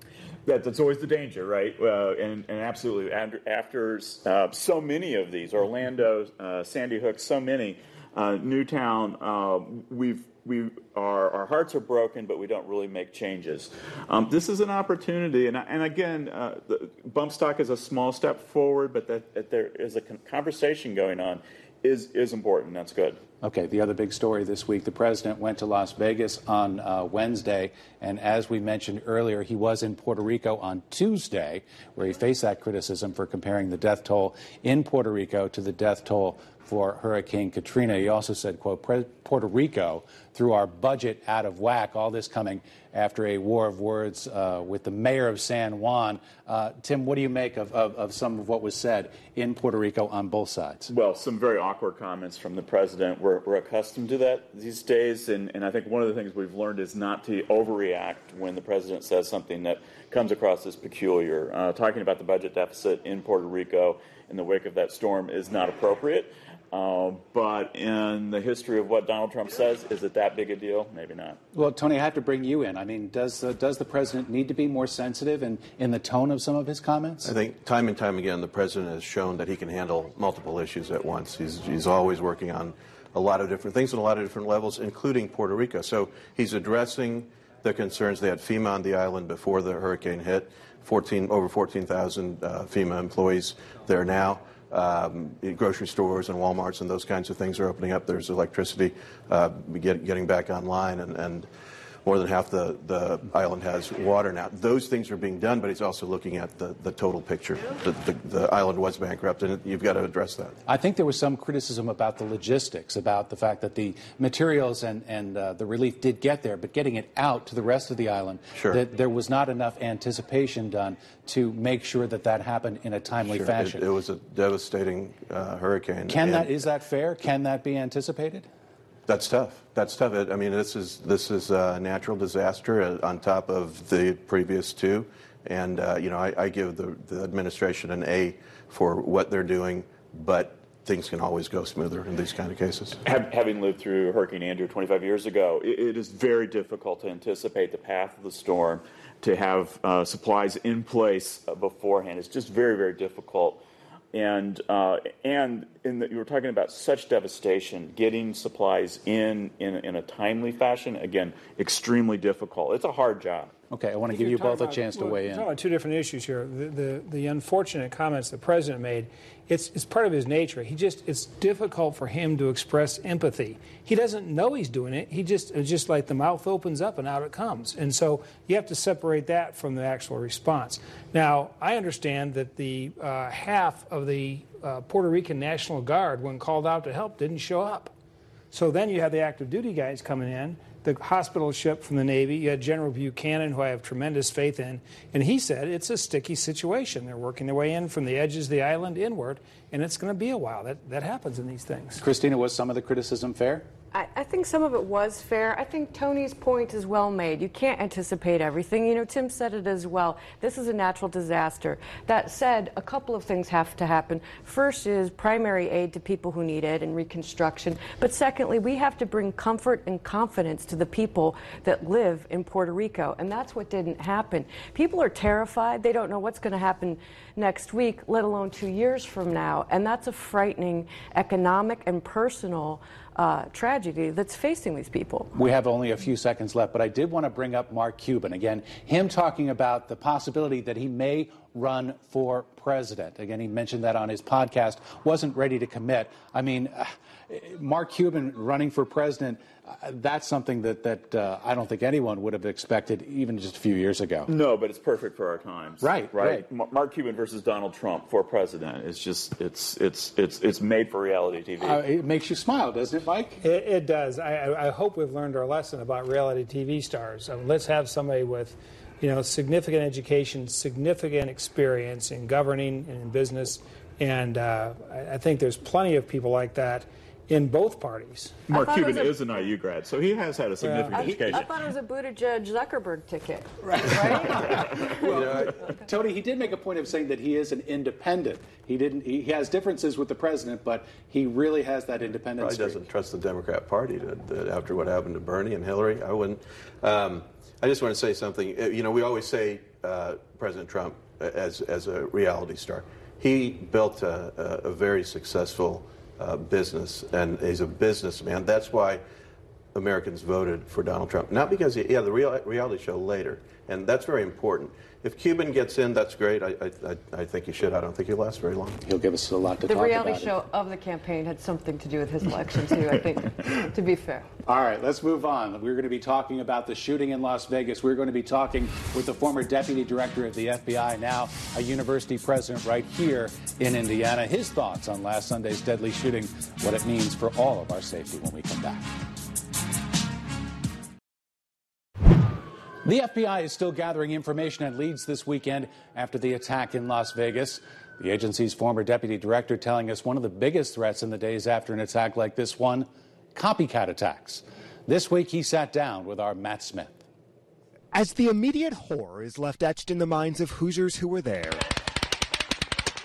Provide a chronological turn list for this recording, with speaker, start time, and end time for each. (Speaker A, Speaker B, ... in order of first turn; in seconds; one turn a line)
Speaker A: 0.5-23.2
Speaker B: 23.4-50.9
Speaker A: 50.9-71.4
Speaker B: 71.5-77.3
Speaker C: 77.2-101.5
Speaker C: 102.0-110.6
Speaker B: 110.7-123.8
Speaker C: 118.5-118.8
Speaker C: 123.3-126.6
Speaker B: 126.1-128.5
Speaker C: 129.1-143.0
Speaker A: 143.0-153.6
Speaker A: 154.1-163.5
Speaker B: 163.7-165.5
Speaker D: 164.1-187.9
Speaker D: 188.5-202.0
Speaker B: 202.0-203.7
Speaker E: 203.9-235.3
Speaker B: 235.3-254.3
Speaker A: 254.3-261.8
Speaker B: 255.8-256.4
Speaker B: 261.6-263.4
Speaker D: 263.4-278.4
Speaker E: 278.5-279.5
Speaker A: 278.5-281.5
Speaker B: 280.9-281.4
Speaker E: 280.9-285.8
Speaker B: 283.7-292.8
Speaker C: 285.1-285.6
Speaker C: 292.4-309.0
Speaker C: 309.7-318.8
Speaker B: 318.8-320.3
Speaker E: 319.7-324.3
Speaker B: 324.4-338.9
Speaker B: 342.8-357.0
Speaker F: 357.9-361.7